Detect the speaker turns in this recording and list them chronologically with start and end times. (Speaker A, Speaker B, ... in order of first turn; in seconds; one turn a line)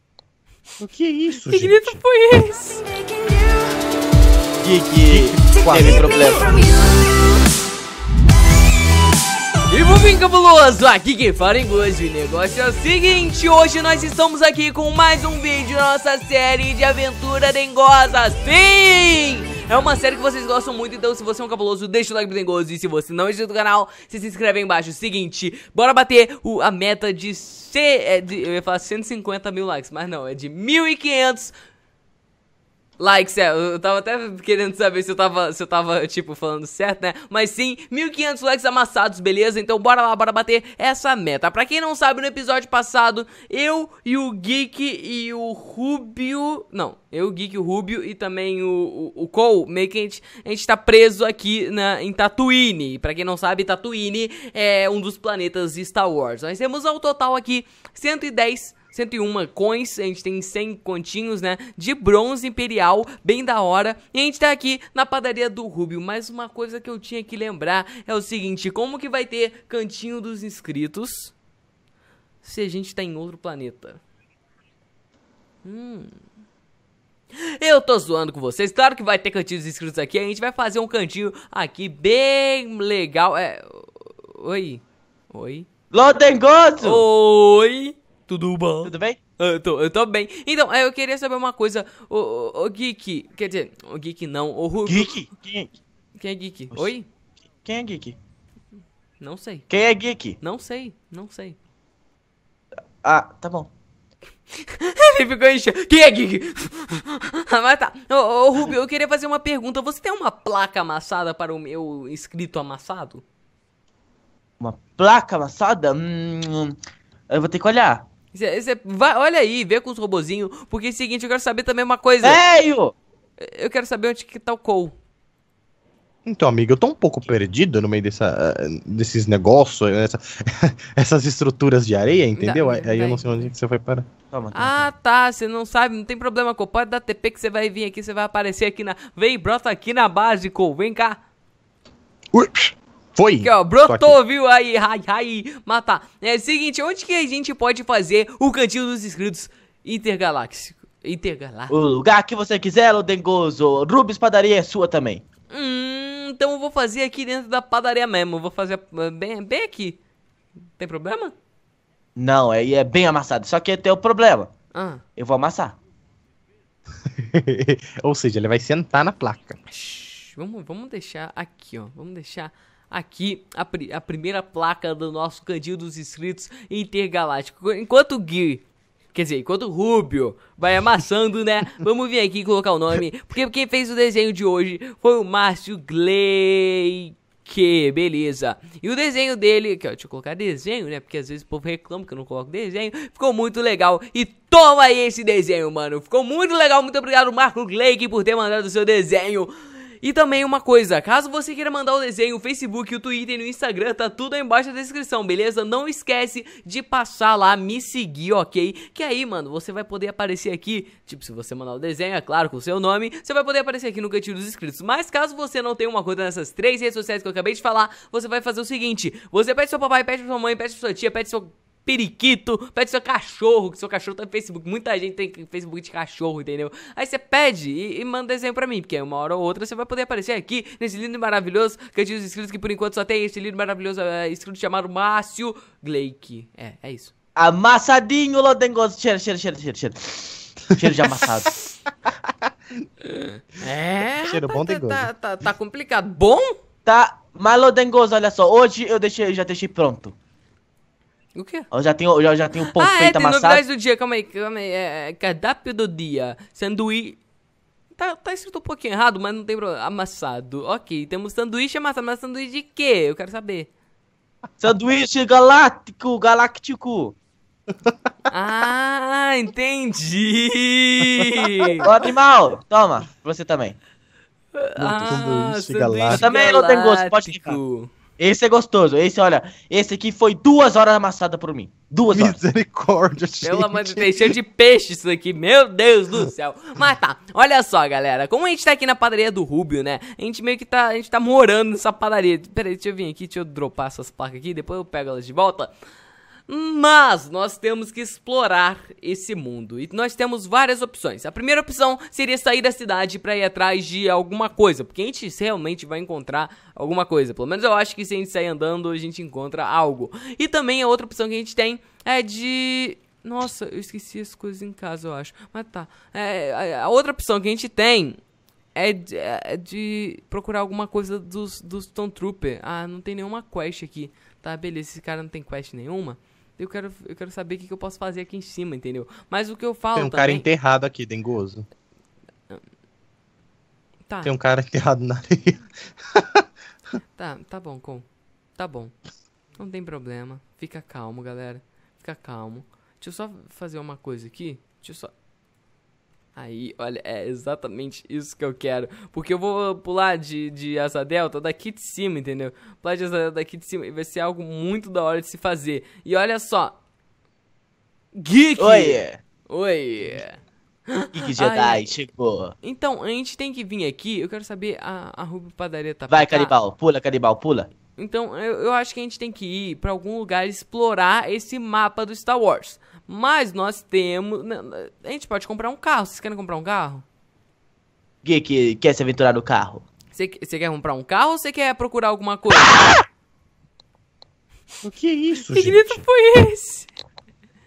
Speaker A: 0.8-2.0
Speaker B: 1.5-3.4
Speaker C: 4.6-6.7
Speaker A: 5.1-6.3
Speaker B: 9.7-31.5
Speaker B: 33.0-71.3
Speaker B: 72.4-74.0
Speaker B: 75.6-76.2
Speaker B: 77.3-85.7
Speaker C: 85.9-87.0
Speaker B: 86.8-95.1
Speaker C: 88.8-89.2
Speaker C: 94.8-95.7
Speaker B: 96.2-97.0
Speaker C: 97.6-98.2
Speaker B: 99.2-99.7
Speaker C: 99.7-100.4
Speaker B: 100.4-101.6
Speaker C: 103.0-103.7
Speaker B: 104.6-113.2
Speaker C: 114.6-116.7
Speaker C: 117.3-118.0
Speaker B: 118.3-122.4
Speaker C: 122.2-123.0
Speaker B: 123.4-125.0
Speaker A: 126.2-134.1
Speaker B: 132.3-133.5
Speaker C: 134.3-134.9
Speaker B: 134.5-141.2
Speaker A: 142.3-144.2
Speaker B: 143.4-151.7
Speaker C: 151.7-155.2
Speaker B: 155.5-160.0
Speaker B: 160.8-161.3
Speaker C: 162.2-164.5
Speaker B: 164.7-165.0
Speaker C: 165.2-165.8
Speaker A: 167.2-169.6
Speaker B: 169.7-237.1
Speaker C: 237.4-241.5
Speaker B: 243.0-246.5
Speaker A: 244.1-245.1
Speaker C: 246.8-250.2
Speaker B: 251.3-251.7
Speaker C: 251.7-253.6
Speaker B: 252.7-257.2
Speaker B: 257.9-263.7
Speaker C: 264.6-267.1
Speaker B: 268.3-271.9
Speaker A: 271.2-271.8
Speaker C: 271.8-273.8
Speaker B: 274.5-277.9
Speaker A: 274.8-276.3
Speaker C: 276.1-277.6
Speaker C: 278.2-282.4
Speaker A: 282.1-284.3
Speaker B: 283.4-295.7
Speaker B: 296.5-318.2
Speaker B: 318.7-330.4
Speaker A: 329.9-331.6
Speaker B: 334.1-334.3
Speaker A: 334.2-336.4
Speaker B: 337.1-338.9
Speaker B: 339.6-345.1
Speaker B: 346.4-356.8
Speaker B: 358.1-361.9
Speaker C: 358.6-359.2
Speaker C: 361.1-362.5
Speaker B: 362.6-366.5
Speaker C: 366.1-367.7
Speaker B: 368.0-377.0
Speaker C: 378.2-379.8
Speaker B: 380.1-382.9
Speaker A: 384.8-386.0
Speaker B: 385.4-386.9